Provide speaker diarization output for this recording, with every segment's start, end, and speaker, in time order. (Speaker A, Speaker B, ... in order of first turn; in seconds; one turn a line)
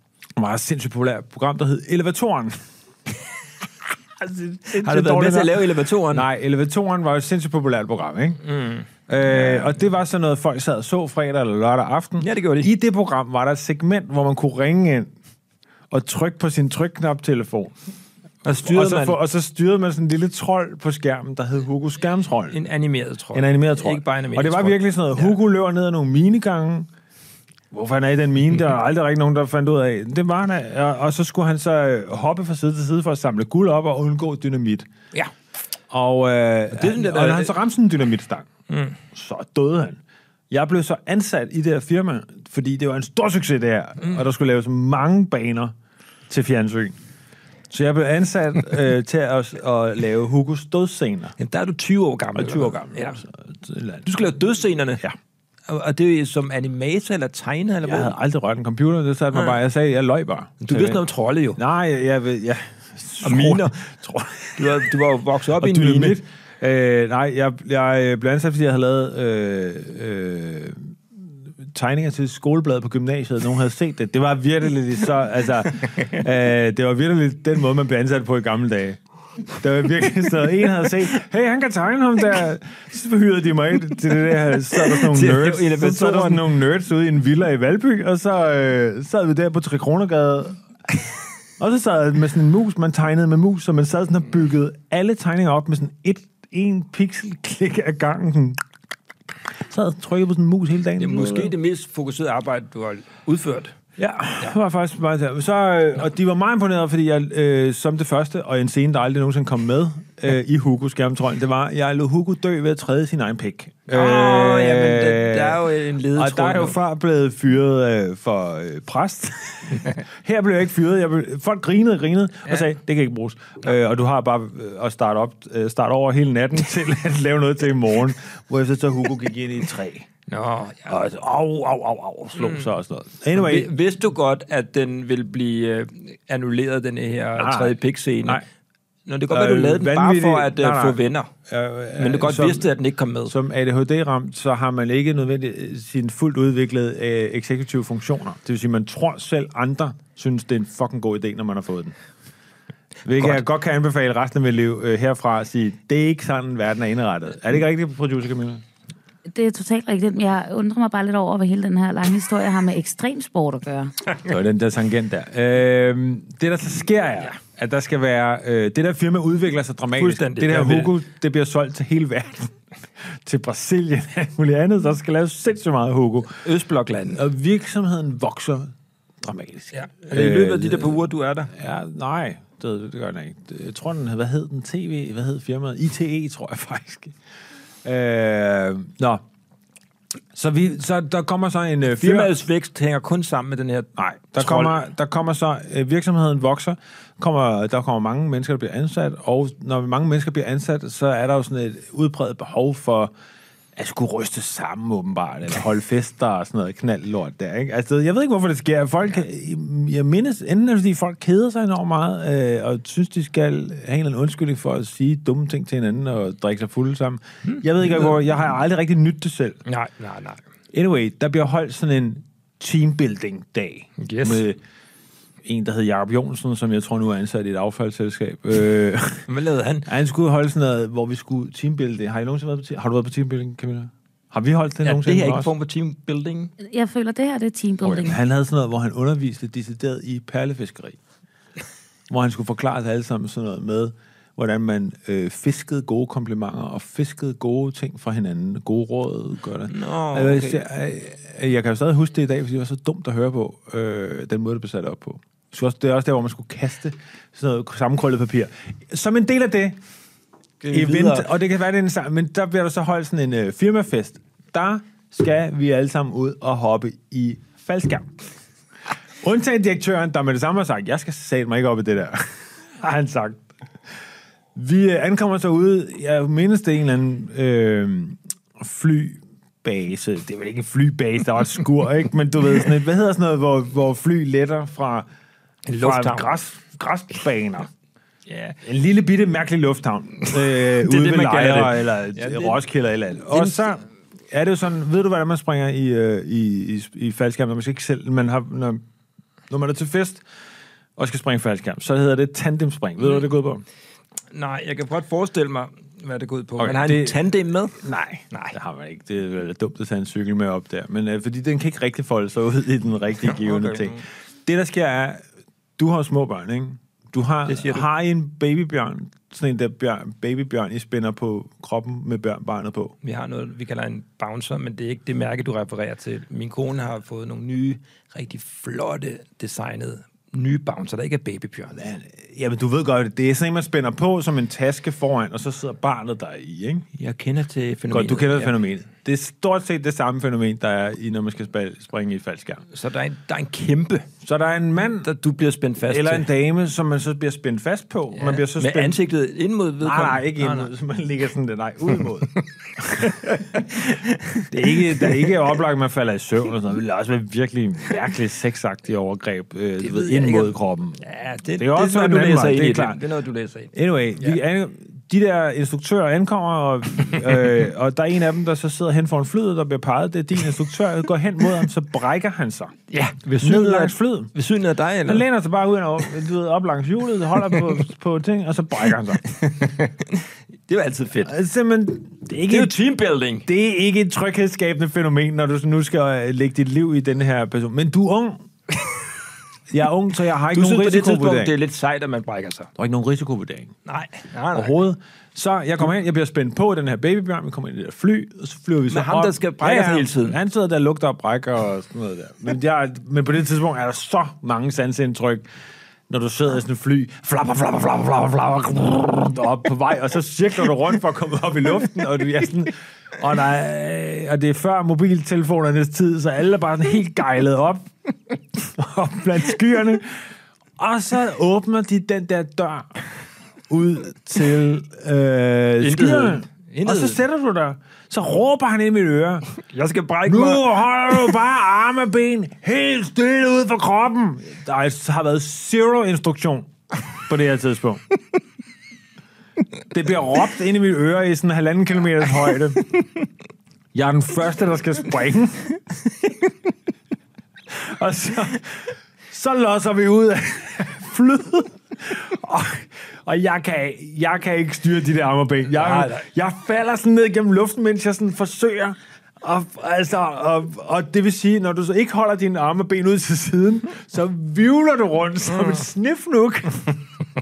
Speaker A: 0.4-2.6
Speaker A: 4.2-8.4
Speaker B: 4.8-6.2
Speaker B: 8.4-9.7
Speaker A: 9.1-15.1
Speaker B: 12.2-12.7
Speaker A: 15.9-17.8
Speaker B: 18.4-19.2
Speaker A: 18.6-22.6
Speaker B: 22.5-25.3
Speaker A: 23.3-26.9
Speaker A: 27.7-34.9
Speaker A: 35.9-38.5
Speaker B: 36.7-37.5
Speaker B: 38.7-39.0
Speaker A: 39.1-45.7
Speaker A: 46.3-47.0
Speaker A: 47.7-51.3
Speaker B: 51.4-53.2
Speaker A: 52.3-54.1
Speaker B: 54.0-55.0
Speaker B: 55.7-58.1
Speaker A: 57.8-61.0
Speaker B: 60.6-61.6
Speaker A: 61.6-64.9
Speaker B: 63.2-63.7
Speaker B: 64.6-66.2
Speaker A: 65.6-70.9
Speaker A: 71.7-90.6
Speaker B: 84.8-86.4
Speaker A: 91.6-98.6
Speaker A: 99.6-101.5
Speaker B: 101.0-103.8
Speaker A: 104.0-130.1
Speaker B: 113.9-116.8
Speaker B: 130.3-130.9
Speaker A: 130.8-133.7
Speaker B: 132.3-132.7
Speaker B: 133.3-138.4
Speaker A: 137.4-138.4
Speaker B: 139.1-141.3
Speaker A: 139.3-142.7
Speaker B: 141.9-143.3
Speaker A: 143.2-151.9
Speaker A: 153.0-158.6
Speaker C: 159.3-164.0
Speaker A: 164.2-172.6
Speaker B: 169.9-170.9
Speaker A: 173.1-176.4
Speaker B: 176.4-177.2
Speaker A: 177.1-187.1
Speaker B: 179.7-181.5
Speaker A: 187.8-189.2
Speaker A: 190.3-192.3
Speaker B: 191.9-194.8
Speaker A: 194.0-203.1
Speaker A: 203.8-219.6
Speaker B: 219.7-220.4
Speaker A: 220.7-224.6
Speaker B: 224.0-224.4
Speaker A: 225.4-229.3
Speaker B: 229.3-229.9
Speaker A: 229.8-235.5
Speaker B: 234.8-236.5
Speaker C: 236.6-238.2
Speaker A: 237.8-241.0
Speaker A: 242.1-259.8
Speaker B: 249.7-250.6
Speaker B: 260.6-261.3
Speaker A: 260.7-268.2
Speaker A: 269.2-272.3
Speaker A: 272.8-273.4
Speaker A: 274.5-285.1
Speaker B: 285.7-286.3
Speaker A: 285.8-287.7
Speaker B: 288.3-288.6
Speaker A: 288.6-298.8
Speaker B: 290.3-292.6
Speaker B: 293.3-293.6
Speaker A: 299.5-300.2
Speaker A: 301.0-303.6
Speaker B: 304.3-307.8
Speaker A: 306.6-315.2
Speaker B: 313.2-314.0
Speaker A: 315.8-322.9
Speaker B: 317.5-317.9
Speaker B: 323.0-331.8
Speaker A: 331.8-336.9
Speaker B: 336.9-338.5
Speaker A: 337.9-342.6
Speaker B: 342.7-344.1
Speaker A: 344.2-345.1
Speaker B: 345.0-346.3
Speaker A: 345.9-349.0
Speaker B: 348.2-350.7
Speaker A: 349.8-353.6
Speaker B: 353.0-355.3
Speaker A: 354.5-361.0
Speaker B: 359.8-364.4
Speaker A: 361.6-363.0
Speaker A: 363.7-372.7
Speaker B: 372.9-375.2
Speaker A: 373.4-374.3
Speaker A: 375.1-379.2
Speaker B: 379.3-381.3
Speaker A: 381.2-382.8
Speaker B: 382.5-383.5
Speaker A: 383.4-388.4
Speaker A: 389.7-391.5
Speaker B: 390.5-392.7
Speaker A: 392.8-393.7
Speaker B: 393.9-394.7
Speaker A: 394.5-405.4
Speaker B: 398.9-400.4
Speaker A: 406.1-417.9
Speaker A: 418.5-420.3
Speaker A: 420.8-422.9
Speaker A: 423.7-429.5
Speaker B: 425.8-427.2
Speaker B: 429.6-430.6
Speaker A: 430.2-438.0
Speaker A: 439.9-442.8
Speaker A: 443.9-445.7
Speaker A: 447.7-467.0
Speaker B: 455.7-456.2